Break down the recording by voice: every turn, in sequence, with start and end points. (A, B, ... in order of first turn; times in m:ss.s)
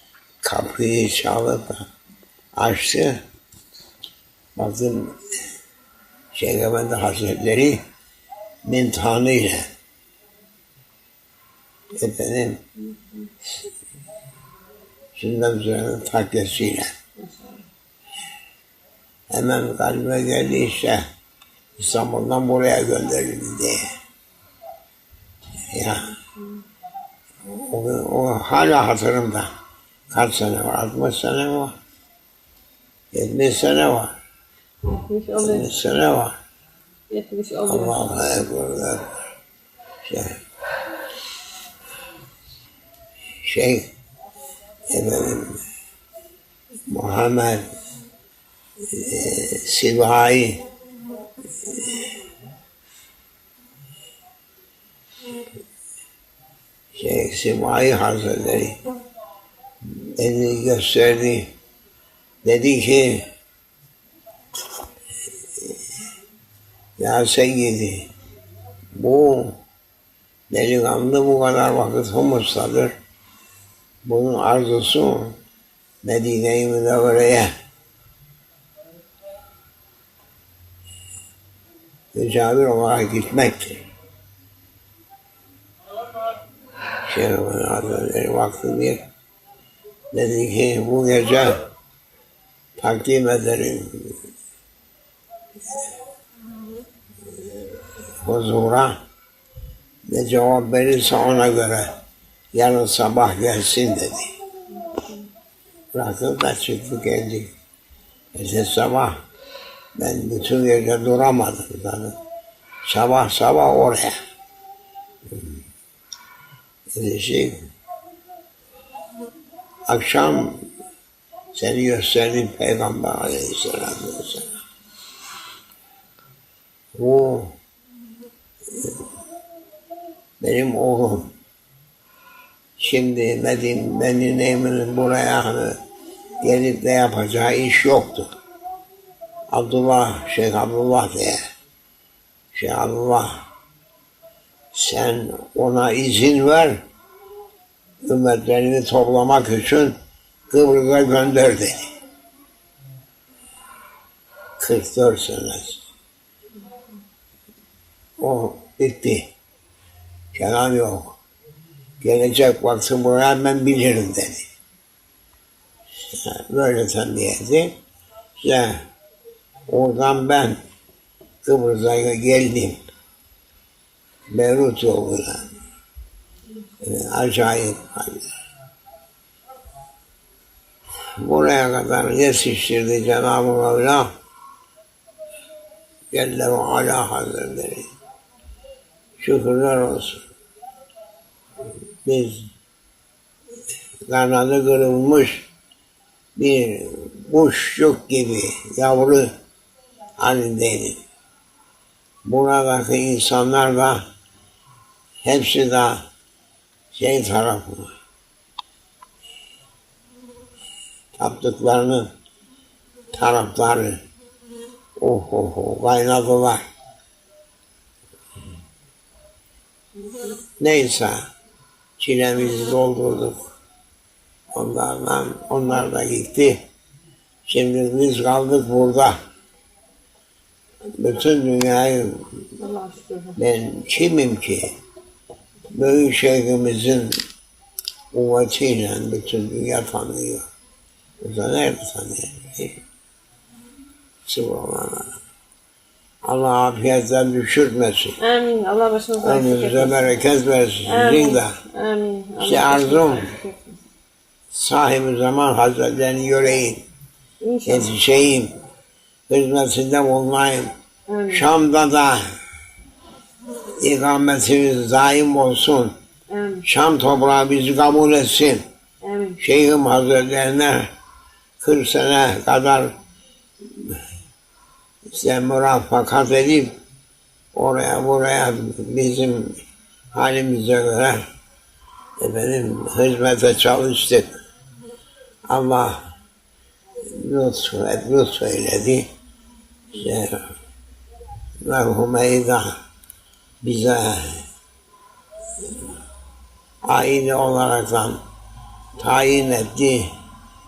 0:00.4-0:01.8 A
0:02.5-0:03.2 A
0:04.6-0:05.2 A
0:06.3-0:07.8 A
0:08.6-0:09.7 A
0:11.9-0:12.6 A
0:15.1-0:16.9 A
0:17.2-0:17.6 B
0:19.3-0:21.0 A
0:21.8-0:23.9 A
0:25.7-0:26.1 A
0:27.4-0:29.5 A
0:30.1-0:31.7 A
0:33.1-0:34.2 A
0:34.9-0:35.7 B
0:35.4-0:36.4 A
0:37.1-0:37.9 B
0:37.7-0:39.2 A
0:40.0-0:40.4 A
0:43.4-0:43.9 A
0:44.9-0:45.6 A
0:46.9-0:47.7 A
0:48.8-0:50.6 A
0:56.9-0:58.8 A
0:59.8-1:01.5 A
1:02.4-1:03.3 A
1:07.0-1:08.1 A
1:08.9-1:09.6 A
1:10.5-1:12.9 A
1:14.0-1:15.4 A
1:16.0-1:17.5 A
1:22.1-1:23.8 A
1:27.1-1:29.0 A
1:30.1-1:31.7 A
1:32.8-1:34.2 A
1:38.2-1:39.0 A
1:40.0-1:41.9 A
1:42.5-1:44.3 A
1:45.9-1:47.5 A
1:48.3-1:49.2 A
1:50.0-1:52.2 A
1:52.8-1:54.1 A
1:56.9-1:57.6 A
1:59.9-2:00.6 A
2:01.5-2:04.5 A
2:06.9-2:07.6 A
2:10.4-2:11.3 A
2:12.8-2:15.8 A
2:16.4-2:18.3 A
2:19.5-2:21.4 A
2:22.5-2:23.4 A
2:24.7-2:26.8 A
2:28.0-2:30.0 A
2:30.5-2:31.9 A
2:34.6-2:35.8 A
2:38.2-2:39.3 A
2:40.3-2:41.2 A
2:42.0-2:44.5 A
2:46.1-2:47.7 A
2:48.4-2:48.8 A
2:49.7-2:50.6 A
2:51.4-2:52.8 A
2:54.3-2:55.5 A
2:56.8-2:58.3 A
3:01.2-3:04.1 A
3:06.1-3:07.9 A
3:09.2-3:10.2 A
3:12.0-3:12.5 A
3:14.0-3:15.5 A
3:16.4-3:19.3 A
3:20.2-3:21.0 A
3:22.2-3:24.0 A
3:25.2-3:26.0 A
3:26.9-3:27.9 A
3:31.2-3:32.1 A
3:33.1-3:34.0 A
3:35.0-3:36.6 A
3:40.6-3:41.2 A
3:42.0-3:43.4 A
3:44.5-3:46.6 A
3:47.5-3:49.2 A
3:50.9-3:52.4 A
3:52.6-3:53.4 B
3:53.4-3:54.7 A
3:55.7-3:57.2 A
3:58.1-4:00.5 A
4:01.2-4:02.8 A
4:04.2-4:05.2 A
4:06.2-4:08.2 A
4:08.2-4:10.0 B
4:09.2-4:11.6 A
4:10.8-4:13.8 B
4:12.4-4:13.3 A
4:14.5-4:16.8 A
4:17.4-4:17.9 B
4:17.6-4:18.5 A
4:19.3-4:20.7 A
4:21.1-4:21.4 B
4:21.3-4:22.3 A
4:23.8-4:25.9 A
4:26.3-4:26.6 B
4:26.6-4:28.6 A
4:29.0-4:29.4 B
4:29.4-4:30.9 A
4:31.6-4:33.0 A
4:35.0-4:36.7 A
4:37.5-4:39.6 A
4:40.1-4:41.3 A
4:42.2-4:44.4 A
4:45.5-4:46.0 A
4:47.0-4:49.1 A
4:49.9-4:50.5 A
4:51.6-4:52.8 A
4:53.6-4:54.4 A
4:56.8-4:58.2 A
4:59.0-5:00.1 A